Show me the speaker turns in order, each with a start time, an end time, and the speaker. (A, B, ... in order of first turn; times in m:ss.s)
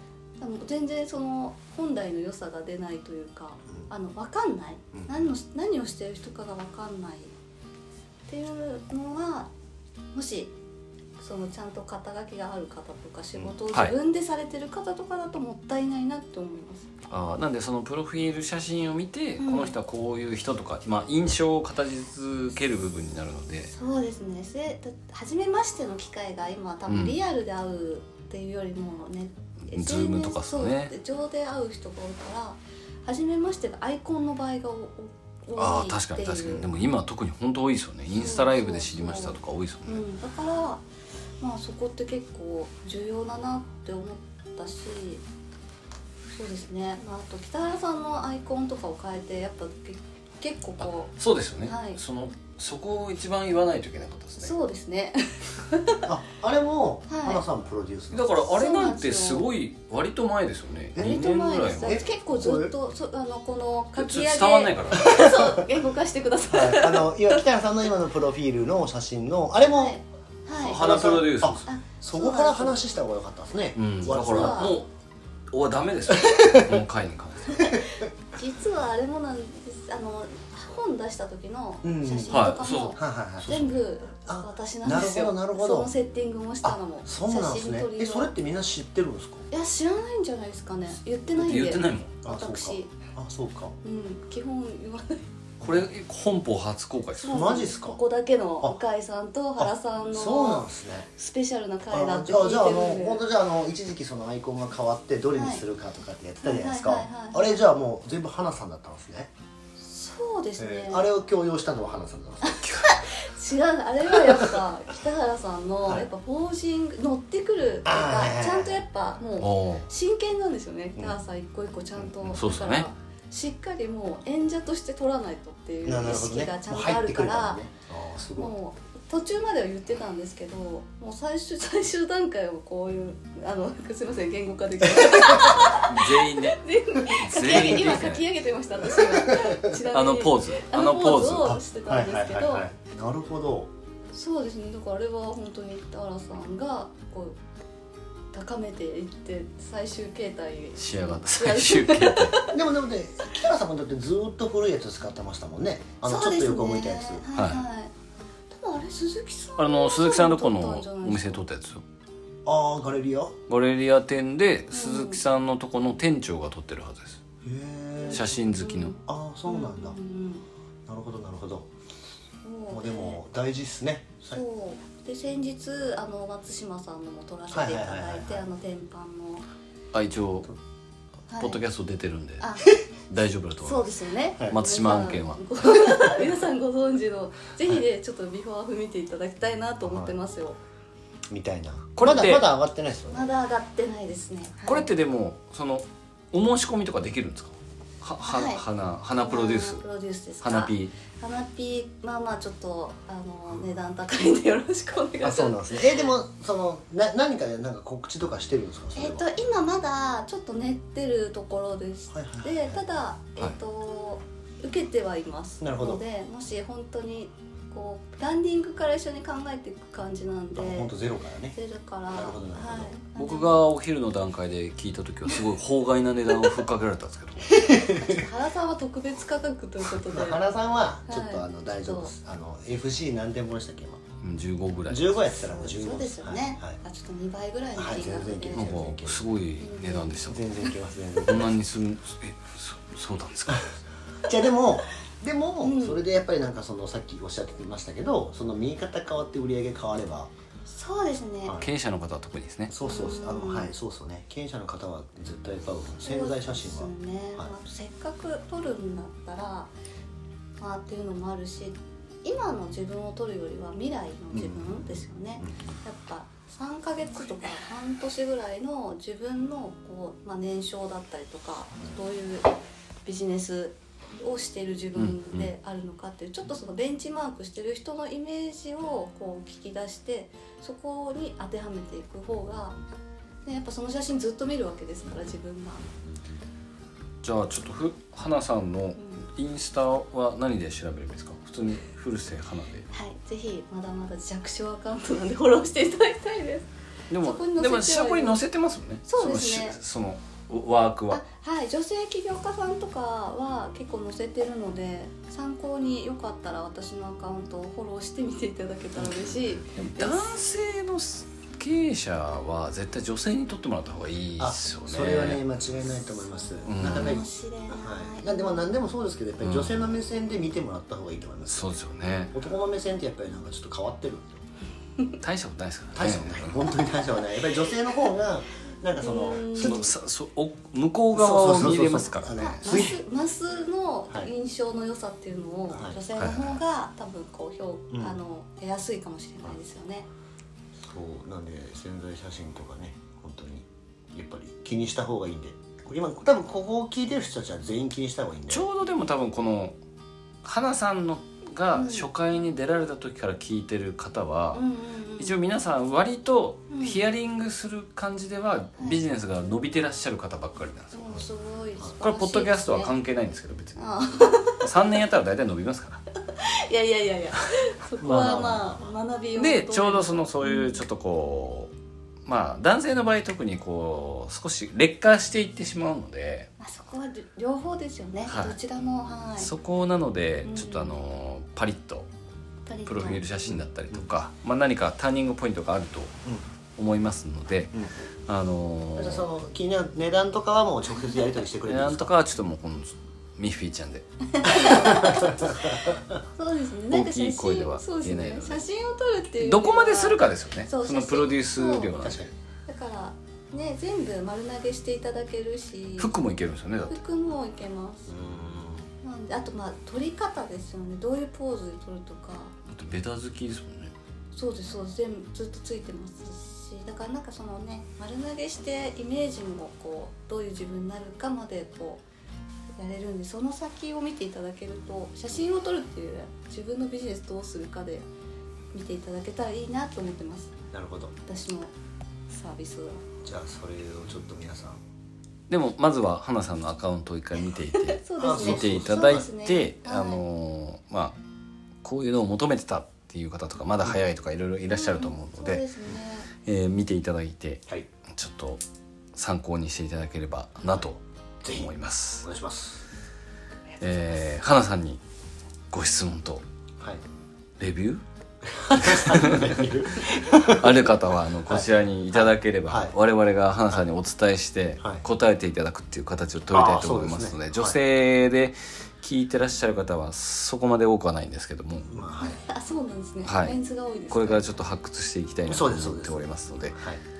0:00.4-0:07.3 A
0:04.9-0:05.2 B
0:08.3-0:09.5 A
0:10.1-0:10.5 A
0:11.2-0:16.9 A
0:17.1-0:23.7 C
0:19.4-0:19.8 A
0:23.7-0:36.7 A
0:26.9-0:27.2 C
0:29.7-0:30.9 C
0:35.6-0:40.0 C
0:38.1-0:40.8 A
0:41.4-0:45.2 A
0:46.3-0:52.0 A
0:50.8-0:54.5 C
0:54.4-0:56.0 A
0:56.0-0:58.4 B
0:57.1-0:57.4 A
0:58.1-1:02.1 C
0:58.5-0:59.5 A
1:01.0-1:01.2 B
1:01.0-1:07.4 A
1:01.8-1:02.7 B
1:04.0-1:05.1 C
1:05.0-1:05.5 B
1:06.5-1:10.0 B
1:09.7-1:11.1 A
1:10.6-1:11.6 C
1:10.6-1:14.8 B
1:11.6-1:12.8 A
1:13.8-1:14.9 C
1:14.0-1:14.8 A
1:15.5-1:17.8 C
1:16.1-1:16.8 B
1:18.3-1:28.3 A
1:21.8-1:25.9 B
1:22.3-1:23.0 C
1:26.6-1:29.5 B
1:29.5-1:32.9 A
1:31.4-1:32.1 C
1:32.2-1:33.8 B
1:33.8-1:35.3 A
1:35.6-1:37.4 C
1:37.2-1:43.2 A
1:37.3-1:38.0 B
1:39.6-1:41.1 B
1:41.9-1:49.3 B
1:45.3-1:45.6 A
1:46.4-1:47.6 A
1:49.8-1:51.1 A
1:50.6-1:52.6 B
1:52.4-2:07.6 A
1:52.6-1:52.9 C
1:54.2-1:54.5 B
1:57.8-1:58.8 B
1:59.4-1:59.8 C
2:02.0-2:02.3 B
2:02.3-2:02.9 C
2:05.8-2:08.5 B
2:08.4-2:22.6 A
2:15.0-2:15.6 B
2:15.7-2:18.2 C
2:19.1-2:19.6 B
2:19.8-2:21.6 C
2:21.5-2:23.7 B
2:24.1-2:27.4 A
2:28.3-2:32.5 A
2:30.8-2:32.4 C
2:32.5-2:37.2 B
2:36.0-2:37.9 A
2:37.3-2:37.6 C
2:38.5-2:41.4 A
2:39.6-2:41.8 C
2:42.4-2:43.4 B
2:43.5-2:47.2 C
2:44.7-2:45.2 A
2:47.4-2:48.4 B
2:48.0-2:50.4 A
2:48.1-2:49.0 C
2:49.0-2:50.0 B
2:50.8-2:51.7 B
2:52.4-2:53.2 A
2:52.7-2:54.4 B
2:54.2-2:59.5 A
2:57.5-2:58.4 B
2:59.9-3:00.5 C
3:01.3-3:01.6 A
3:01.4-3:02.5 C
3:02.4-3:02.8 A
3:03.1-3:03.9 C
3:03.6-3:10.6 A
3:04.5-3:05.5 C
3:09.8-3:10.1 B
3:11.3-3:13.3 B
3:12.0-3:12.4 C
3:13.1-3:14.9 A
3:14.7-3:19.8 C
3:18.2-3:18.6 A
3:19.2-3:26.1 A
3:20.4-3:20.9 C
3:25.2-3:29.2 B
3:29.0-3:40.9 A
3:32.1-3:32.8 B
3:35.6-3:36.0 B
3:40.5-3:41.6 B
3:41.5-3:43.6 A
3:42.1-3:42.9 B
3:43.1-3:47.6 C
3:47.5-3:48.2 B
3:47.7-3:50.4 A
3:49.9-3:54.0 B
3:51.0-3:52.1 A
3:54.2-3:55.2 C
3:54.9-3:56.8 B
3:55.4-3:58.9 A
3:57.8-3:59.2 B
3:58.5-4:00.5 C
3:59.6-4:00.7 A
4:00.2-4:01.5 B
4:01.2-4:03.7 C
4:04.2-4:10.3 B
4:05.6-4:06.0 A
4:10.7-4:11.6 A
4:11.6-4:12.7 C
4:12.7-4:17.5 B
4:12.8-4:13.7 A
4:16.0-4:19.7 A
4:20.6-4:32.5 A
4:24.3-4:25.8 B
4:33.0-4:42.8 A
4:35.0-4:35.5 C
4:43.4-4:45.8 A
4:47.2-4:52.9 C
4:49.0-4:49.2 A
4:52.9-4:56.7 A
4:57.1-5:01.2 C
4:57.2-4:58.4 A
4:59.1-4:59.8 A
5:01.1-5:10.4 A
5:09.0-5:09.5 B
5:09.8-5:15.4 C
5:14.4-5:21.7 B
5:16.6-5:17.2 C
5:16.7-5:18.6 A
5:19.4-5:19.9 C
5:21.5-5:22.3 C
5:22.3-5:24.4 B
5:25.2-5:26.8 C
5:25.9-5:29.9 B
5:29.0-5:29.8 A
5:29.5-5:32.8 C
5:31.1-5:33.0 B
5:32.4-5:40.1 A
5:35.7-5:36.0 B
5:36.2-5:36.6 C
5:37.9-5:38.2 B
5:40.8-5:48.7 B
5:48.5-5:49.8 C
5:50.4-5:54.6 C
5:51.7-5:52.1 A
5:54.5-5:55.3 A
5:55.2-6:01.2 C
5:56.7-5:57.0 A
6:00.9-6:02.9 A
6:02.0-6:03.8 C
6:03.8-6:04.7 A
6:04.5-6:06.0 C
6:06.3-6:10.8 A
6:08.0-6:08.9 B
6:08.0-6:08.5 C
6:09.4-6:11.7 C
6:12.2-6:16.5 C
6:16.6-6:19.5 A
6:18.3-6:18.6 C
6:19.4-6:22.1 C
6:20.4-6:21.0 A
6:22.6-6:23.2 A
6:22.8-6:26.1 C
6:23.5-6:24.1 B
6:26.8-6:27.8 C
6:28.3-6:29.2 C
6:29.0-6:32.1 B
6:31.6-6:34.0 C
6:34.3-6:41.9 A
6:34.6-6:36.2 B
6:36.9-6:38.6 C
6:39.4-6:42.2 C
6:42.0-6:42.3 B
6:42.7-6:46.1 A
6:46.0-6:47.0 C
6:46.9-6:48.1 A
6:48.1-6:48.9 B
6:49.0-6:52.5 A
6:52.7-6:53.9 C
6:54.3-7:02.0 A
7:02.8-7:08.0 A
7:08.7-7:10.5 A
7:10.7-7:11.1 B
7:11.2-7:11.7 A
7:12.3-7:13.0 A
7:13.2-7:14.8 B
7:15.5-7:21.2 C
7:17.7-7:20.2 A
7:18.2-7:19.2 B
7:21.8-7:25.6 C
7:24.7-7:26.3 A
7:26.4-7:28.6 C
7:29.1-7:32.3 C
7:31.4-7:32.8 B
7:33.8-7:35.0 C
7:35.7-7:36.4 C
7:37.6-7:38.0 C
7:38.4-7:40.8 B
7:38.8-7:51.9 C
7:41.5-7:42.9 B
7:46.5-7:47.8 B
7:51.9-7:52.4 B
7:52.2-7:54.5 A
7:53.2-7:53.6 C
7:54.1-7:56.8 C
7:55.5-7:57.0 B